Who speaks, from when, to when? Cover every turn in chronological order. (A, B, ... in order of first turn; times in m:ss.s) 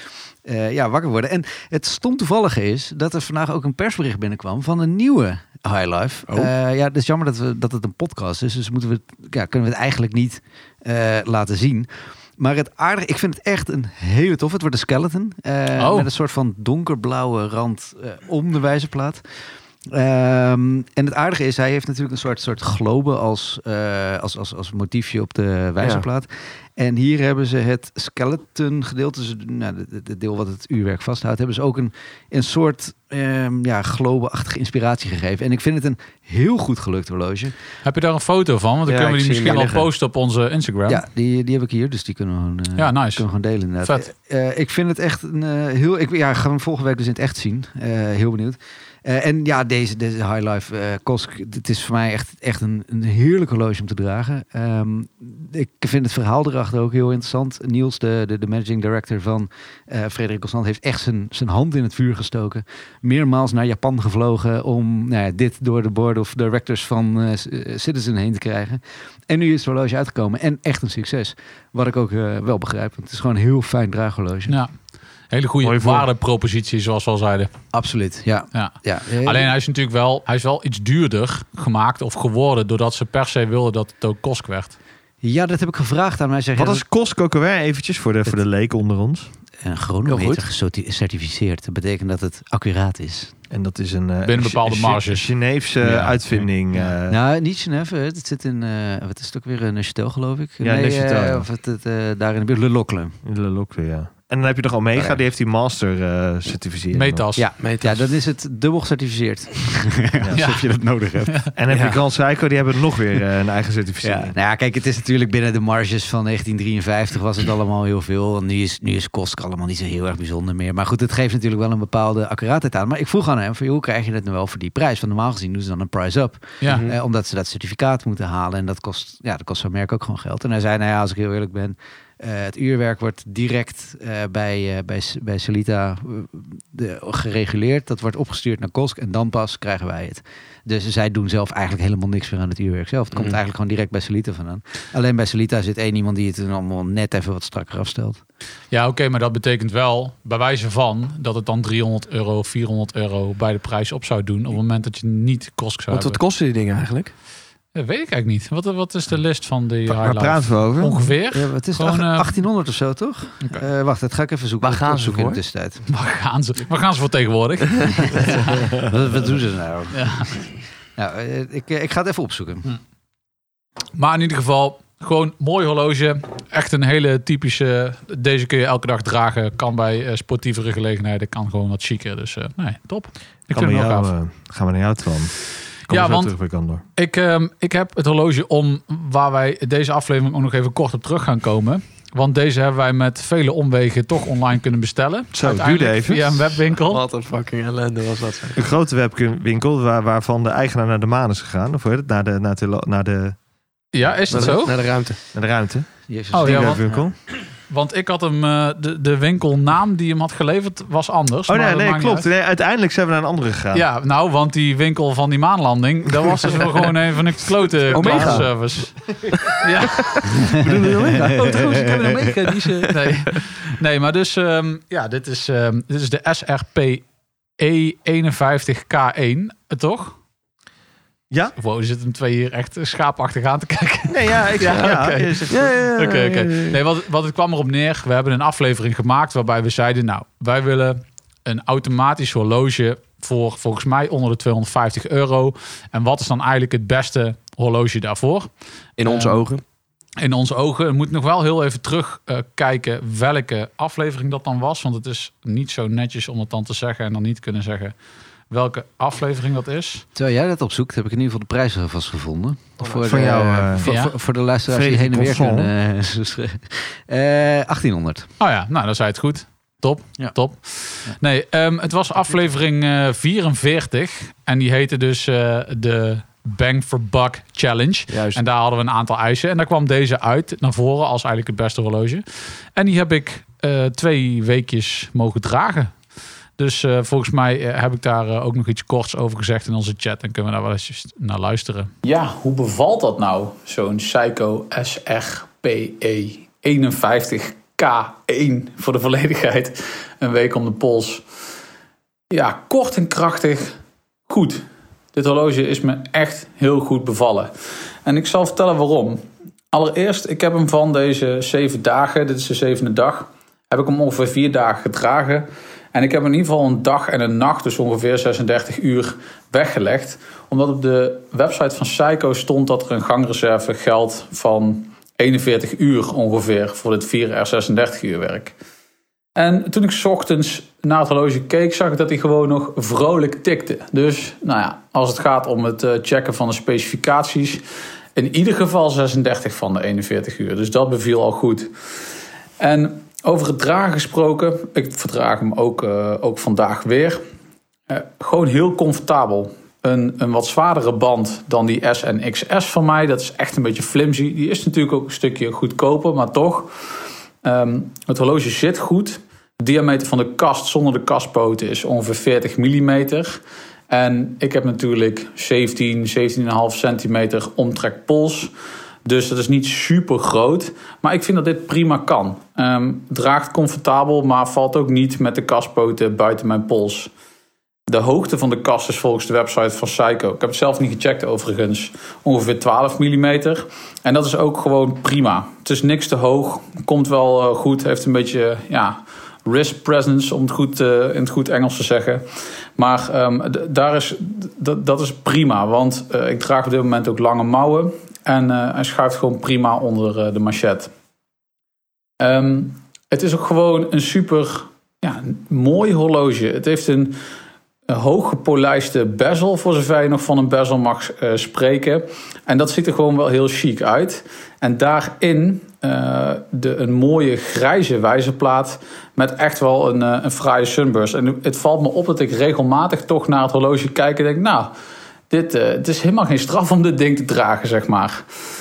0:00.4-0:19.2 A
0:15.8-0:16.1 B
0:19.8-0:37.5 A
0:25.8-0:26.0 C
0:37.8-0:41.0 B
0:38.9-0:39.9 C
0:40.9-1:14.6 A
0:42.8-0:43.2 B
1:14.5-1:14.7 B
1:15.3-1:17.5 B
1:15.6-1:16.1 D
1:17.7-1:19.5 A
1:18.5-1:24.8 B
1:25.2-1:26.8 A
1:26.6-1:29.3 D
1:29.6-1:33.4 A
1:30.1-1:30.4 C
1:33.5-1:37.2 D
1:34.2-1:35.3 B
1:35.8-1:36.2 A
1:37.1-1:43.2 A
1:40.6-1:41.4 D
1:43.2-1:47.2 D
1:44.9-1:45.2 A
1:46.9-1:47.5 B
1:47.4-1:51.4 A
1:47.6-1:48.0 C
1:50.3-1:50.6 B
1:51.6-1:54.3 D
1:51.7-1:52.0 C
1:54.0-2:28.2 A
2:06.7-2:06.9 C
2:28.7-2:36.2 B
2:35.9-2:37.1 C
2:37.7-2:42.3 B
2:39.9-2:41.1 D
2:41.3-2:45.8 A
2:44.6-2:45.4 C
2:45.9-2:48.6 B
2:48.0-2:52.7 A
2:49.9-2:50.3 B
2:54.0-3:04.1 B
3:03.5-3:06.8 D
3:05.9-3:06.3 B
3:07.0-3:17.0 B
3:15.3-3:16.6 D
3:16.9-3:18.6 C
3:18.6-3:23.4 D
3:23.9-3:24.8 B
3:24.3-3:25.2 C
3:25.3-3:27.1 D
3:26.1-3:27.1 A
3:26.3-3:26.8 B
3:27.7-3:32.3 B
3:31.5-3:33.8 D
3:33.7-3:47.0 B
3:37.9-3:38.5 C
3:37.9-3:38.4 D
3:40.0-3:41.7 C
3:40.4-3:42.4 A
3:47.6-3:50.2 B
3:51.6-4:08.5 B
3:54.1-3:55.7 D
3:54.6-3:55.0 C
3:55.5-3:56.8 C
4:09.0-4:09.6 C
4:09.0-4:09.4 B
4:10.2-4:17.9 B
4:18.5-4:20.0 B
4:20.1-4:28.3 A
4:23.0-4:23.9 D
4:23.8-4:24.1 B
4:24.7-4:25.7 D
4:28.4-4:42.2 B
4:38.1-4:38.4 C
4:42.8-4:46.0 B
4:46.6-5:01.2 B
5:02.3-5:03.8 B
5:04.3-5:07.5 B
5:08.0-5:28.5 B
5:29.4-5:37.6 B
5:38.1-5:41.7 B
5:42.6-5:47.2 B
5:47.9-5:56.7 B
5:57.4-6:08.5 B
6:09.0-6:17.1 B
6:17.9-6:32.2 B
6:32.8-6:40.9 B
6:42.2-6:47.2 B
6:47.9-7:04.7 B
7:05.3-7:08.2 B